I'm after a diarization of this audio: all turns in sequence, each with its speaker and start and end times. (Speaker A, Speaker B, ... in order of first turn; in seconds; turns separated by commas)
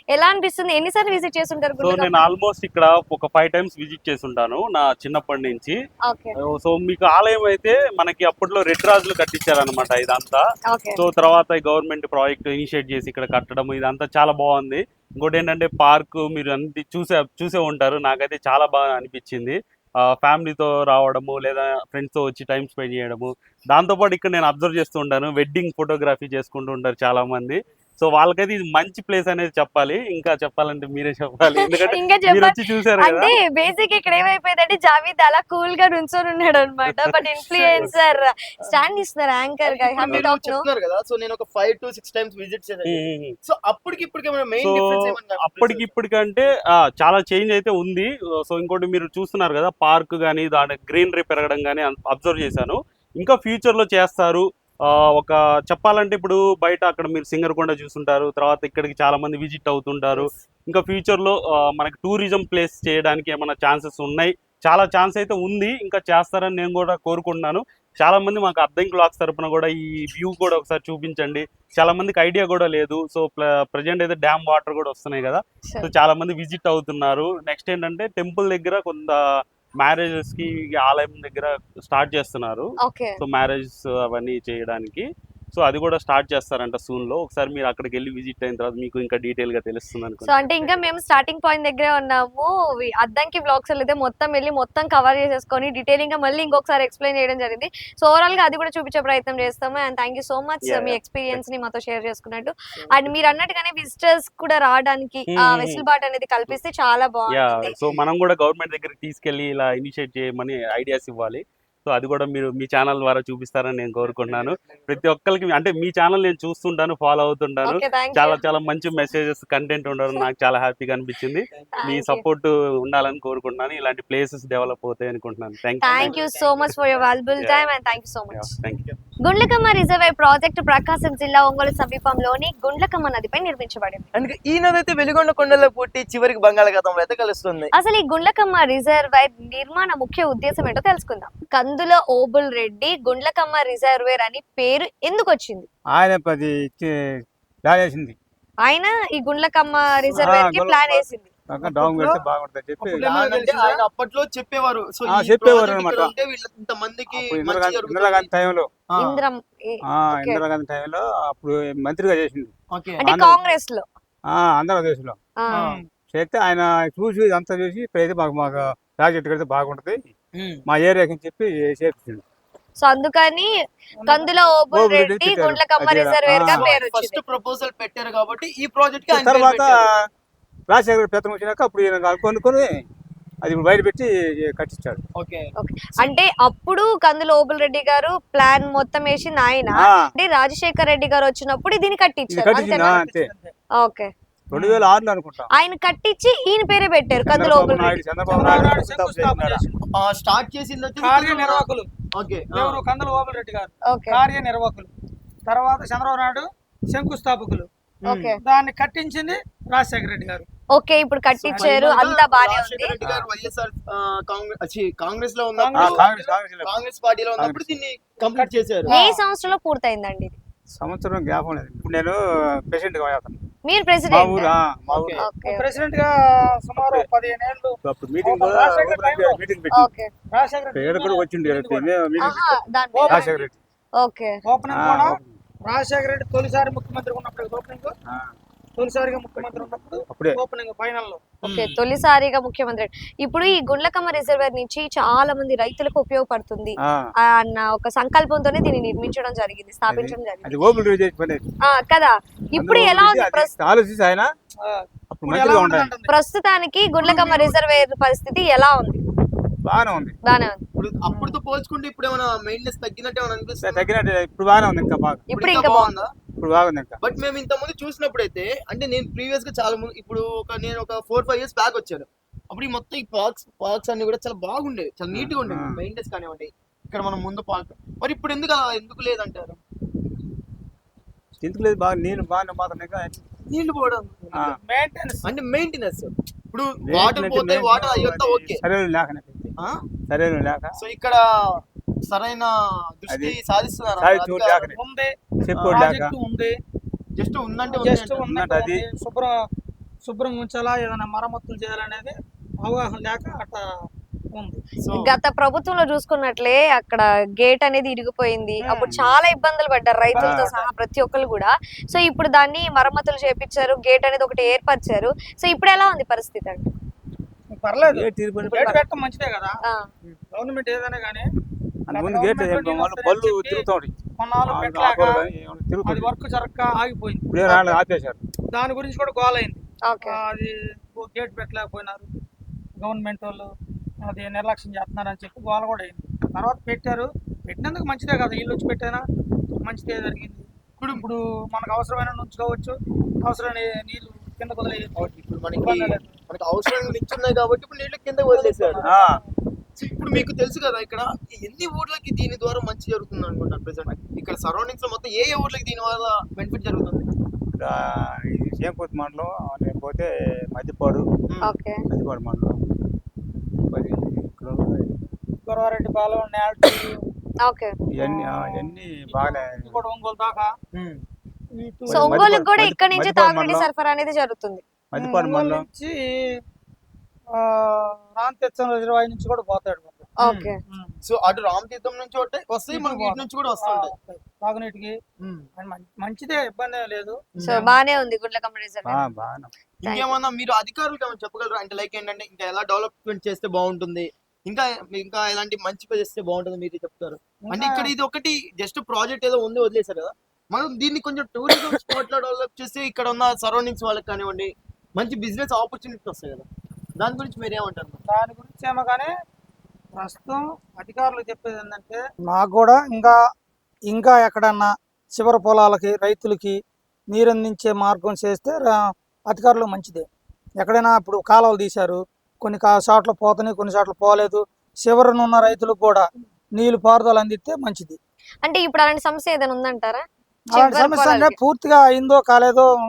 Speaker A: 0.1-2.1, Speaker B: 1.8-5.8, Speaker A: 6.1-6.3, Speaker B: 6.4-10.4, Speaker A: 10.7-11.0, Speaker B: 11.0-33.4, Speaker A: 31.5-40.6, Speaker B: 36.9-37.9, Speaker C: 37.6-38.0, Speaker C: 39.6-45.9, Speaker B: 42.9-43.3, Speaker B: 44.6-79.2, Speaker B: 79.8-82.7, Speaker A: 82.8-83.2, Speaker B: 83.2-90.8, Speaker A: 90.2-107.8, Speaker B: 100.7-101.4, Speaker B: 105.3-105.8, Speaker B: 107.3-126.8, Speaker A: 117.7-118.4, Speaker A: 121.8-122.2, Speaker A: 125.8-128.5, Speaker B: 127.4-127.7, Speaker B: 128.3-128.9, Speaker A: 129.2-134.1, Speaker C: 134.1-137.7, Speaker A: 137.8-145.7, Speaker D: 145.9-146.9, Speaker D: 147.7-148.2, Speaker A: 148.6-151.3, Speaker D: 150.1-153.1, Speaker E: 151.6-152.2, Speaker C: 152.8-158.3, Speaker E: 152.9-153.8, Speaker D: 155.1-156.1, Speaker D: 157.1-158.7, Speaker C: 158.9-159.2, Speaker A: 159.0-160.4, Speaker D: 159.9-163.4, Speaker C: 162.7-163.0, Speaker A: 163.0-163.8, Speaker D: 164.3-165.2, Speaker E: 165.5-165.9, Speaker D: 166.1-170.1, Speaker C: 170.3-170.6, Speaker D: 170.7-172.2, Speaker A: 172.8-173.5, Speaker E: 174.0-174.3, Speaker A: 174.1-177.2, Speaker D: 174.7-176.8, Speaker C: 176.5-179.8, Speaker D: 179.1-179.9, Speaker D: 180.7-182.8, Speaker D: 183.4-185.0, Speaker C: 185.2-186.2, Speaker A: 185.6-193.0, Speaker D: 189.8-190.1, Speaker D: 192.3-193.3, Speaker E: 192.7-193.5, Speaker A: 193.8-194.1, Speaker D: 194.5-195.5, Speaker C: 194.5-194.8, Speaker A: 195.5-198.0, Speaker D: 197.3-199.6, Speaker E: 198.3-199.8, Speaker C: 199.9-201.6, Speaker E: 201.0-201.9, Speaker C: 202.2-202.8, Speaker E: 202.5-204.9, Speaker A: 203.9-204.2, Speaker E: 205.5-207.7, Speaker C: 208.0-208.3, Speaker A: 208.1-208.4, Speaker E: 208.4-210.4, Speaker A: 210.8-212.9, Speaker E: 211.4-211.9, Speaker C: 211.5-216.0, Speaker D: 213.0-213.3, Speaker E: 215.6-216.3, Speaker D: 215.8-216.8, Speaker C: 216.6-218.9, Speaker D: 217.4-217.7, Speaker E: 218.2-219.2, Speaker A: 218.9-220.4, Speaker D: 220.8-223.4, Speaker A: 223.7-224.5, Speaker D: 224.1-225.2, Speaker C: 224.9-225.2, Speaker A: 225.2-225.7, Speaker E: 225.4-229.4, Speaker D: 226.8-227.1, Speaker D: 227.8-229.9, Speaker A: 229.8-230.1, Speaker E: 230.3-231.9, Speaker D: 230.8-233.5, Speaker A: 232.2-233.2, Speaker E: 232.9-233.5, Speaker A: 234.0-234.3, Speaker E: 234.4-237.9, Speaker D: 234.7-235.4, Speaker E: 238.8-241.3, Speaker D: 239.4-240.4, Speaker A: 241.4-250.6, Speaker C: 241.4-241.8, Speaker D: 249.9-251.5, Speaker A: 251.6-253.5, Speaker D: 252.6-254.3, Speaker E: 254.6-256.1, Speaker D: 255.1-255.9, Speaker A: 256.1-259.0, Speaker C: 257.0-257.6, Speaker D: 259.6-260.2, Speaker A: 260.2-260.6, Speaker C: 260.8-263.9, Speaker E: 261.1-261.4, Speaker D: 263.6-265.3, Speaker C: 265.3-266.1, Speaker A: 265.3-265.9, Speaker D: 266.4-267.0, Speaker C: 267.0-279.6, Speaker D: 275.1-275.8, Speaker D: 281.4-283.2, Speaker C: 283.5-284.5, Speaker E: 284.5-285.3, Speaker C: 285.2-288.6, Speaker D: 286.9-289.6, Speaker D: 290.1-290.8, Speaker C: 290.8-294.7, Speaker D: 293.1-293.4, Speaker D: 294.0-294.8, Speaker E: 294.7-296.5, Speaker D: 295.5-296.1, Speaker C: 297.2-298.2, Speaker E: 297.6-299.3, Speaker D: 298.3-298.8, Speaker E: 300.1-303.6, Speaker C: 304.8-305.1, Speaker A: 304.9-316.7, Speaker E: 308.6-309.0, Speaker E: 310.1-310.7, Speaker D: 310.2-310.5, Speaker E: 317.5-319.6, Speaker D: 317.9-318.8, Speaker E: 320.3-321.3, Speaker D: 321.9-323.9, Speaker E: 321.9-323.7, Speaker E: 324.2-325.2, Speaker D: 324.5-326.1, Speaker E: 325.9-327.8, Speaker D: 327.3-328.2, Speaker E: 328.5-332.1, Speaker A: 329.9-330.2, Speaker E: 332.8-333.5, Speaker E: 334.0-339.0, Speaker E: 339.6-346.2, Speaker C: 340.8-341.1, Speaker C: 345.0-348.8, Speaker E: 348.3-349.3, Speaker D: 348.8-349.2, Speaker C: 349.8-357.1, Speaker D: 357.5-361.1, Speaker A: 361.4-361.8, Speaker D: 361.9-362.6, Speaker D: 363.6-365.0, Speaker E: 365.5-367.0, Speaker A: 367.4-367.7, Speaker D: 367.9-369.8, Speaker E: 368.0-370.5, Speaker C: 370.7-371.0, Speaker E: 371.6-372.4, Speaker D: 371.9-373.7, Speaker A: 371.9-374.6, Speaker D: 374.9-375.7, Speaker E: 375.0-376.1, Speaker E: 377.4-381.0, Speaker A: 380.2-380.6, Speaker C: 381.1-383.9, Speaker E: 382.7-384.9, Speaker C: 385.2-385.5, Speaker E: 385.6-387.8, Speaker A: 387.4-389.1, Speaker D: 388.9-389.5, Speaker C: 389.8-406.5, Speaker A: 389.9-390.1, Speaker E: 397.4-397.9, Speaker C: 407.0-408.0, Speaker E: 408.1-409.1, Speaker E: 410.0-413.2, Speaker E: 413.9-416.6, Speaker E: 417.1-418.8, Speaker E: 419.3-420.1, Speaker E: 420.6-428.0, Speaker A: 428.4-430.0, Speaker E: 430.5-432.7, Speaker A: 430.6-431.4